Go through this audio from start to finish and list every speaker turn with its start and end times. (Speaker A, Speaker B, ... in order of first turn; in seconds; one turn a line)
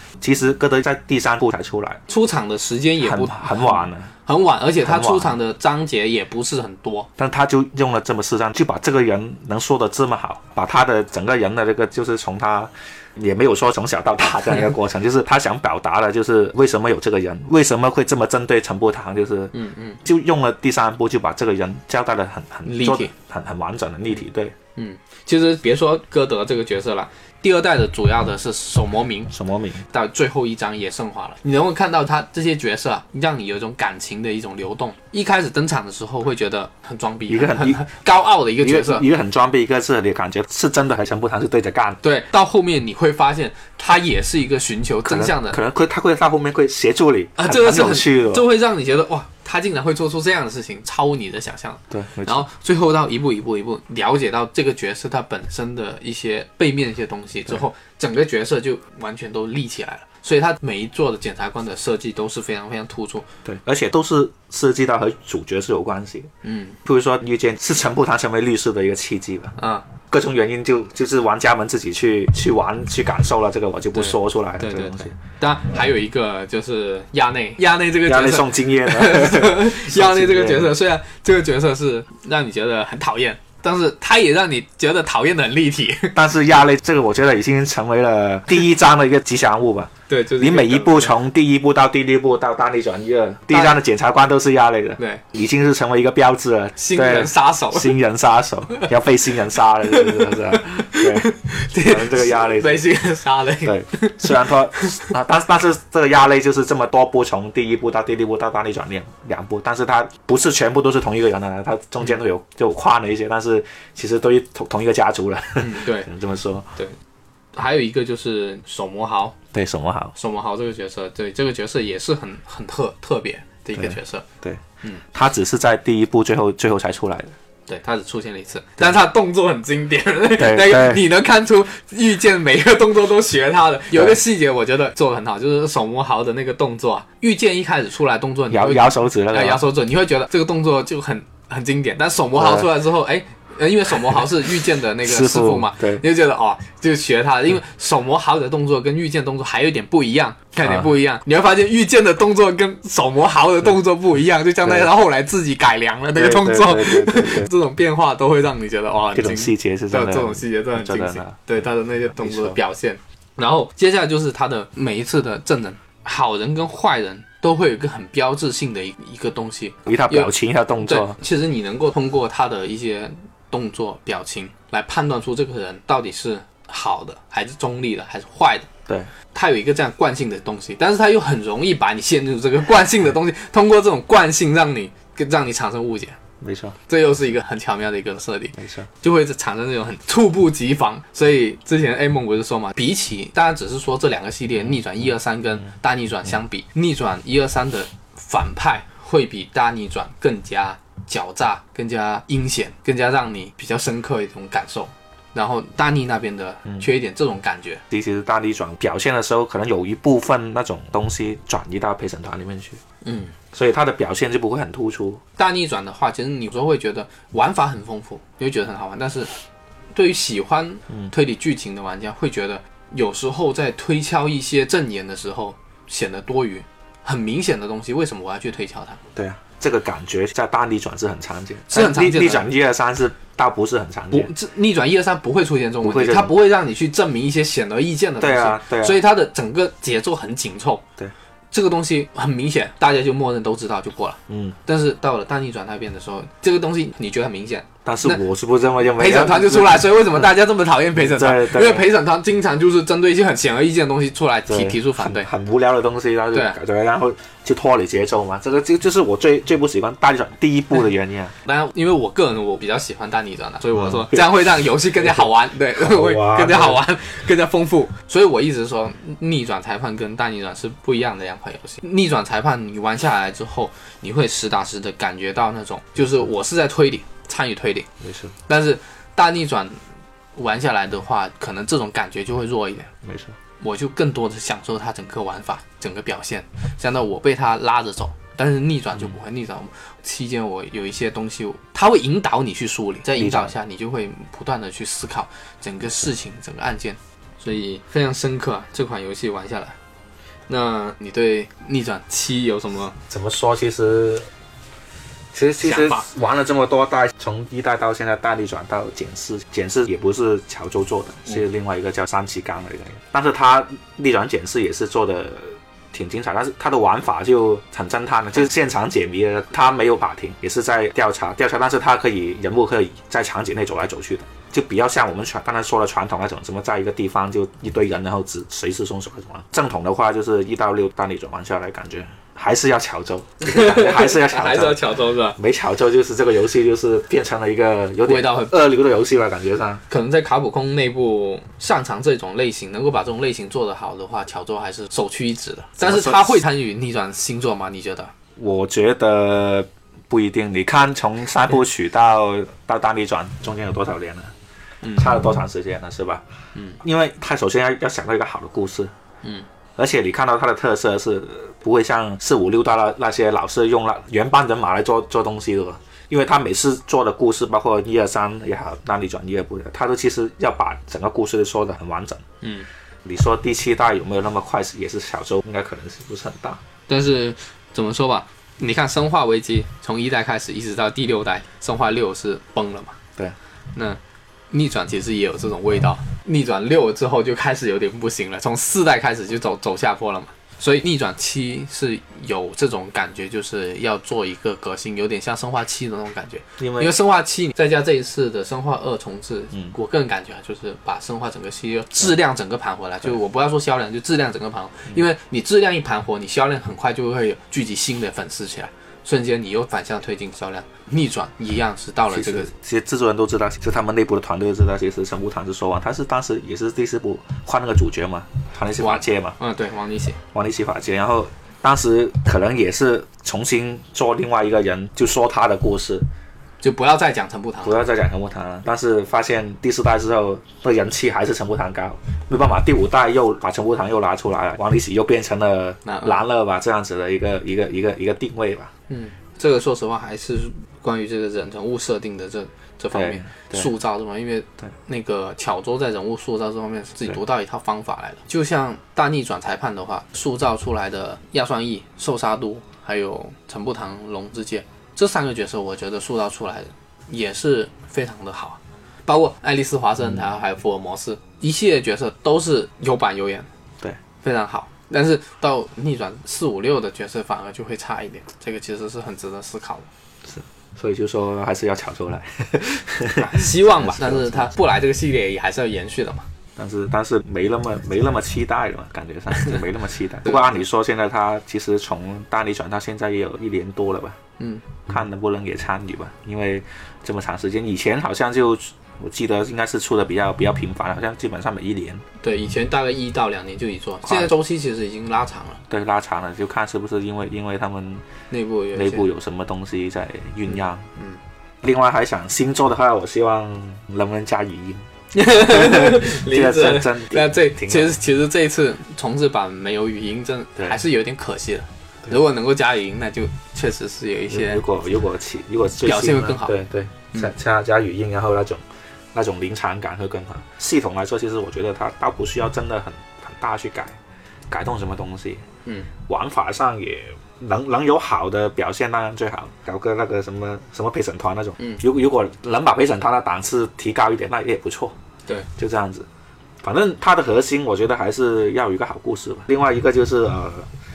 Speaker A: 0.2-2.0
Speaker B: 2.1-7.1
Speaker A: 3.0-4.1
Speaker A: 4.8-5.4
Speaker A: 7.2-24.6
Speaker B: 19.5-20.0
Speaker B: 22.7-23.1
Speaker B: 24.8-29.3
Speaker A: 29.3-29.8
Speaker B: 29.9-39.0
Speaker A: 37.3-37.9
Speaker A: 38.6-42.0
Speaker B: 42.0-45.6
Speaker A: 45.0-48.5
Speaker B: 47.4-63.3
Speaker A: 51.9-52.5
Speaker A: 63.5-66.3
Speaker B: 66.4-66.8
Speaker A: 66.8-69.5
Speaker B: 69.6-69.9
Speaker A: 70.1-75.1
Speaker B: 73.9-86.2
Speaker A: 78.0-80.8
Speaker A: 86.1-102.8
Speaker B: 90.1-91.2
Speaker B: 93.5-93.8
Speaker B: 95.0-95.2
Speaker B: 96.8-98.0
Speaker B: 99.9-105.1
Speaker A: 103.6-116.7
Speaker B: 115.6-116.1
Speaker B: 117.5-119.4
Speaker A: 119.5-120.1
Speaker B: 120.2-124.3
Speaker A: 123.8-127.4
Speaker B: 127.7-178.7
Speaker A: 130.4-131.0
Speaker A: 133.9-134.2
Speaker A: 138.5-139.6
Speaker A: 142.3-142.7
Speaker A: 145.0-146.0
Speaker A: 150.6-150.9
Speaker A: 154.6-154.9
Speaker A: 156.1-157.5
Speaker A: 159.1-161.4
Speaker A: 162.2-162.6
Speaker A: 169.9-171.2
Speaker B: 179.3-186.2
Speaker A: 186.4-186.8
Speaker B: 186.9-207.8
Speaker A: 188.6-188.9
Speaker A: 207.9-212.8
Speaker B: 213.0-213.3
Speaker A: 213.5-215.2
Speaker B: 215.4-219.3
Speaker B: 219.9-229.0
Speaker A: 229.1-234.3
Speaker B: 231.7-232.5
Speaker B: 234.1-240.8
Speaker A: 235.8-236.3
Speaker A: 238.2-239.0
Speaker B: 241.5-248.2
Speaker A: 244.3-244.6
Speaker A: 247.8-250.3
Speaker B: 249.0-255.3
Speaker A: 250.9-251.9
Speaker A: 254.5-261.3
Speaker B: 256.3-256.6
Speaker B: 261.4-277.9
Speaker A: 263.8-264.3
Speaker A: 265.0-266.8
Speaker A: 278.0-278.3
Speaker B: 278.5-279.8
Speaker B: 280.4-282.9
Speaker A: 283.0-283.4
Speaker B: 283.6-299.8
Speaker A: 293.2-293.5
Speaker B: 300.5-303.0
Speaker A: 303.1-304.3
Speaker A: 305.3-334.8
Speaker B: 305.6-306.1
Speaker B: 333.4-335.4
Speaker A: 335.4-339.8
Speaker B: 338.1-338.6
Speaker B: 339.9-348.1
Speaker A: 345.8-346.4
Speaker A: 348.4-354.3
Speaker B: 354.8-355.3
Speaker A: 354.9-356.2
Speaker B: 356.6-356.8
Speaker A: 356.8-358.9
Speaker A: 359.8-372.2
Speaker B: 372.4-372.7
Speaker A: 373.1-376.6
Speaker B: 376.9-383.0
Speaker B: 383.7-384.0
Speaker B: 384.5-412.5
Speaker A: 396.6-396.9
Speaker A: 412.1-419.4
Speaker B: 418.8-420.2
Speaker A: 420.3-426.1
Speaker B: 426.6-427.9
Speaker A: 427.6-438.7
Speaker B: 435.9-436.2
Speaker B: 438.9-463.5
Speaker A: 442.9-443.7
Speaker B: 464.2-469.9
Speaker A: 470.3-474.5
Speaker B: 473.1-476.3
Speaker A: 476.6-484.2
Speaker B: 480.2-480.5
Speaker B: 484.4-484.6
Speaker A: 484.9-492.0
Speaker B: 492.2-495.6
Speaker A: 494.1-494.3
Speaker A: 495.7-498.1
Speaker B: 498.3-499.0
Speaker A: 498.7-500.9
Speaker B: 500.5-501.2
Speaker A: 501.6-507.9
Speaker B: 505.1-514.6
Speaker A: 514.3-518.6
Speaker B: 515.9-516.6
Speaker A: 519.1-524.0
Speaker A: 524.5-525.4
Speaker A: 526.1-535.0
Speaker A: 535.6-536.1
Speaker A: 536.6-540.7